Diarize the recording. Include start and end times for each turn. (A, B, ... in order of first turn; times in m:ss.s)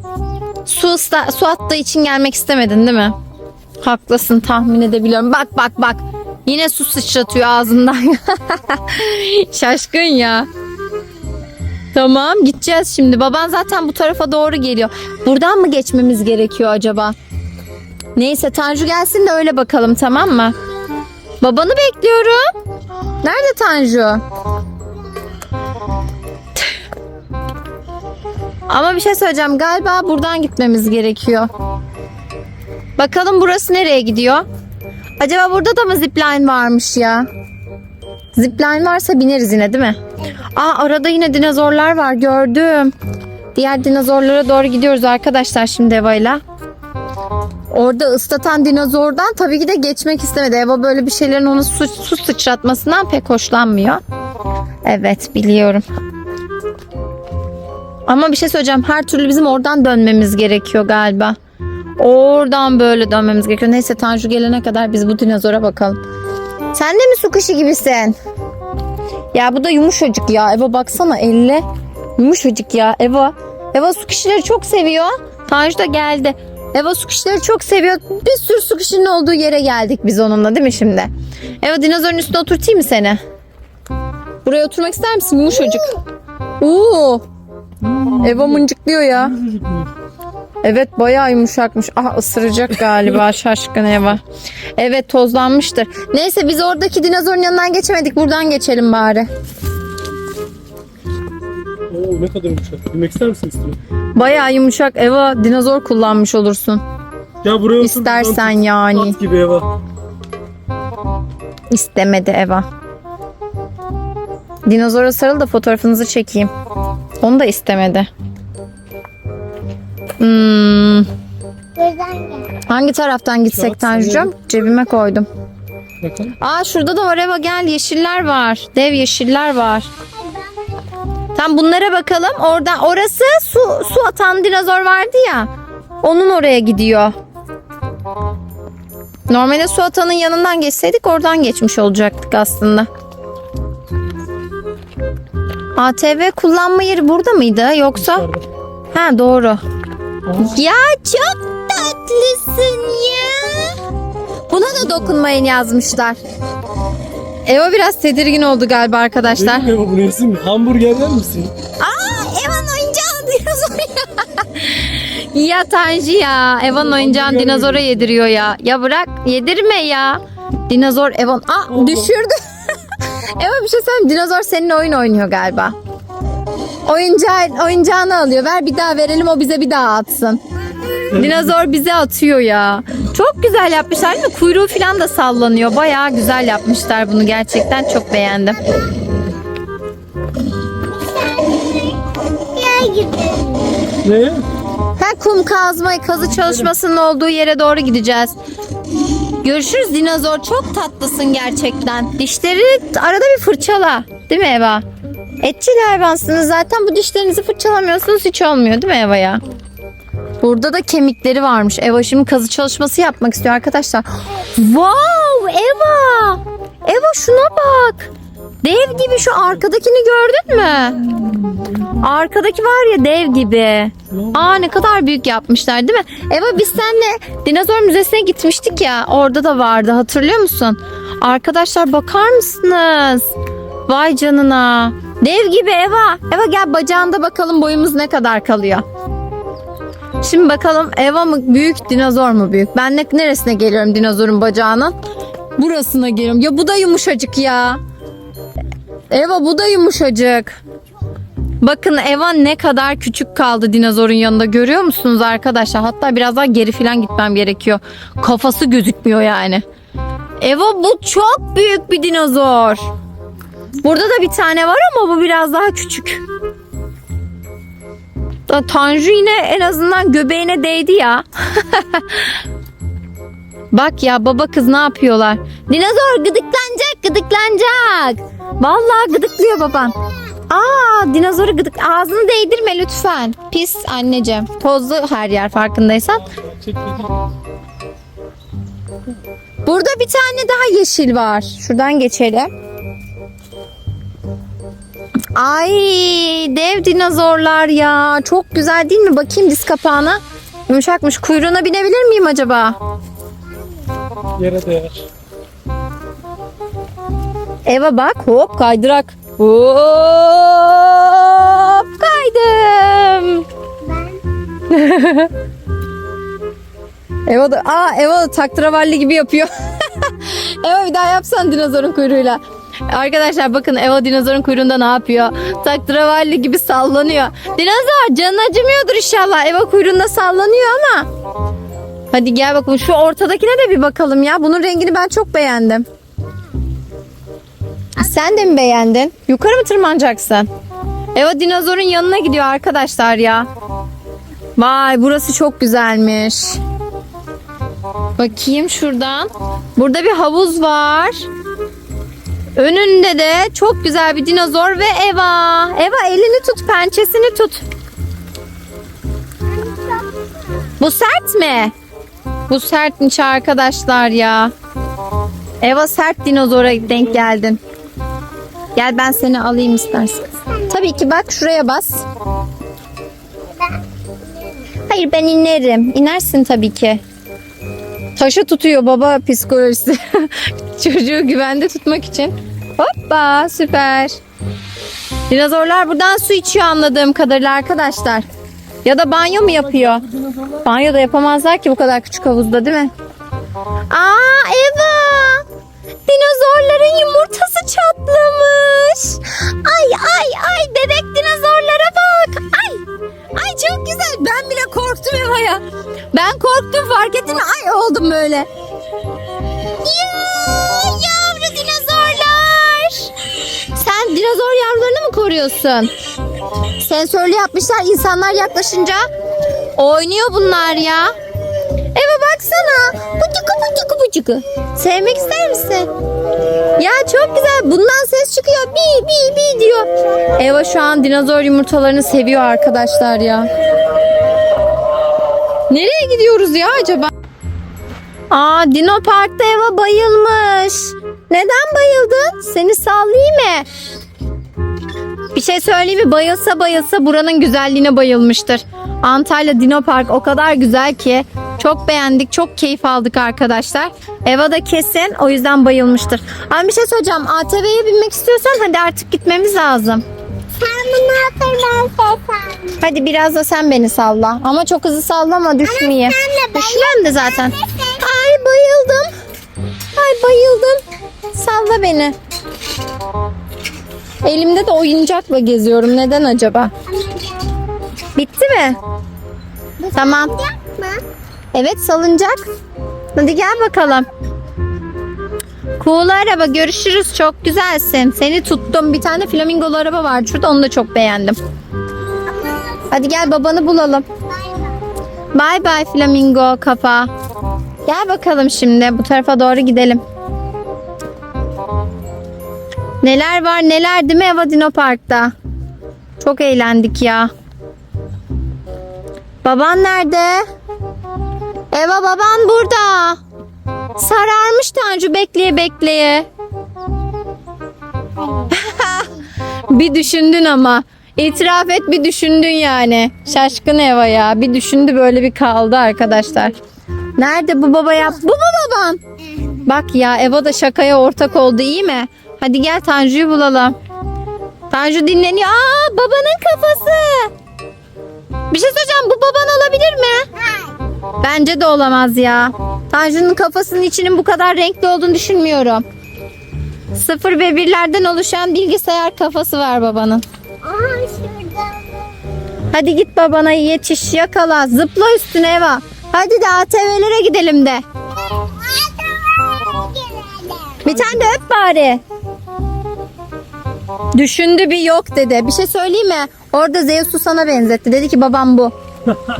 0:00.6-0:03.2 A
0:03.8-0:10.5 A
0:11.9-0:17.1 A
0:18.2-0:20.5 A
0:21.4-0:22.5 A
0:23.2-0:24.2 A
0:28.7-0:31.5 A
0:33.0-0:34.4 A
0:35.2-0:37.3 A
0:38.3-0:40.0 A
0:40.5-0:42.9 A
0:43.5-0:46.4 A
0:47.7-0:54.0 A
0:54.8-0:55.8 A
0:58.1-1:01.4 A
1:02.0-1:06.0 A
1:06.7-1:08.2 A
1:09.3-1:11.6 A
1:12.2-1:21.1 A
1:21.6-1:23.2 A
1:24.4-1:26.0 A
1:26.6-1:27.2 A
1:27.8-1:29.9 B
1:28.2-1:29.4 A
1:30.6-1:34.2 A
1:34.8-1:39.3 A
1:41.9-1:43.8 B
1:44.1-1:46.8 A
1:47.4-1:49.7 B
1:47.8-1:49.2 A
1:51.7-1:52.6 A
1:54.6-1:56.5 A
1:57.2-1:58.1 A
2:00.2-2:01.1 A
2:01.8-2:02.5 C
2:02.7-2:05.3 A
2:03.5-2:04.3 B
2:06.0-2:06.3 B
2:06.4-2:09.9 A
2:10.2-2:10.5 C
2:11.3-2:15.5 A
2:16.0-2:17.1 A
2:19.3-2:22.9 A
2:25.8-2:28.2 A
2:28.0-2:28.4 B
2:28.9-2:29.6 A
2:30.2-2:30.6 B
2:30.4-2:33.8 A
2:34.5-2:36.2 A
2:37.4-2:39.7 A
2:39.3-2:41.5 B
2:41.8-2:52.4 A
2:46.7-2:48.2 B
2:51.7-2:52.1 B
2:53.4-2:55.7 A
2:56.8-3:00.4 A
3:01.1-3:01.5 B
3:01.1-3:08.6 A
3:10.9-3:13.8 C
3:14.0-3:14.4 B
3:15.0-3:18.4 A
3:19.4-3:24.8 A
3:25.4-3:29.4 A
3:30.4-3:38.1 A
3:38.6-3:41.3 A
3:42.0-3:53.3 A
3:44.1-3:44.4 B
3:53.9-3:58.8 A
4:00.2-4:04.9 A
4:05.6-4:07.8 A
4:09.1-4:10.6 A
4:11.6-4:19.6 A
4:20.4-4:22.9 A
4:23.8-4:26.2 A
4:28.5-4:32.3 A
4:33.7-4:39.9 A
4:40.5-4:46.2 A
4:46.3-4:47.1 B
4:49.6-4:52.5 A
4:55.3-5:02.8 A
5:04.4-5:05.1 B
5:07.6-5:13.4 A
5:13.8-5:14.2 C
5:14.7-5:15.3 A
5:17.3-5:31.1 A
5:32.1-5:35.8 A
5:38.0-5:40.5 A
5:41.1-5:43.5 A
5:44.6-5:46.6 A
5:48.2-5:51.3 A
5:52.6-5:57.6 A
5:59.5-6:00.2 C
6:00.8-6:01.7 A
6:02.5-6:04.5 A
6:05.6-6:07.6 A
6:08.7-6:12.0 A
6:13.6-6:13.8 C
6:14.9-6:17.0 A
6:18.2-6:24.2 A
6:25.3-6:28.3 A
6:28.8-6:30.0 A
6:29.5-6:30.6 B
6:30.6-6:32.9 A
6:33.9-6:35.4 A
6:36.1-6:48.5 A
6:49.8-6:53.1 A
6:53.7-6:55.9 A
6:56.8-6:59.0 A
6:59.8-7:01.1 A
7:01.9-7:05.9 A
7:06.8-7:13.5 A
7:15.7-7:17.1 A
7:18.3-7:23.7 A
7:25.3-7:40.0 A
7:40.6-7:42.8 C
7:42.8-7:49.1 A
7:45.6-7:48.0 C
7:49.9-7:50.8 A
7:51.3-7:52.2 A
7:54.2-7:56.7 A
7:56.9-7:57.5 C
7:58.2-7:58.8 A
7:59.8-8:01.0 C
7:59.9-8:00.3 A
8:01.5-8:02.4 A
8:03.1-8:04.1 A
8:05.8-8:11.4 A
8:12.3-8:12.9 C
8:12.9-8:14.0 A
8:14.3-8:14.7 C
8:15.3-8:17.1 A
8:17.8-8:20.0 A
8:23.0-8:25.3 A
8:26.2-8:27.3 A
8:29.4-8:30.4 A
8:31.7-8:33.2 A
8:34.0-8:36.3 A
8:38.2-8:38.6 C
8:38.5-8:39.1 A
8:39.7-8:46.5 A
8:47.2-8:49.0 A
8:49.6-8:53.7 A
8:54.7-8:57.3 A
8:58.5-9:00.3 A
9:00.3-9:00.8 C
9:01.2-9:05.8 A
9:06.9-9:10.2 A
9:10.6-9:11.9 C
9:12.7-9:17.8 A
9:18.3-9:20.8 C
9:20.8-9:22.0 A
9:20.9-9:21.2 B
9:24.1-9:28.7 A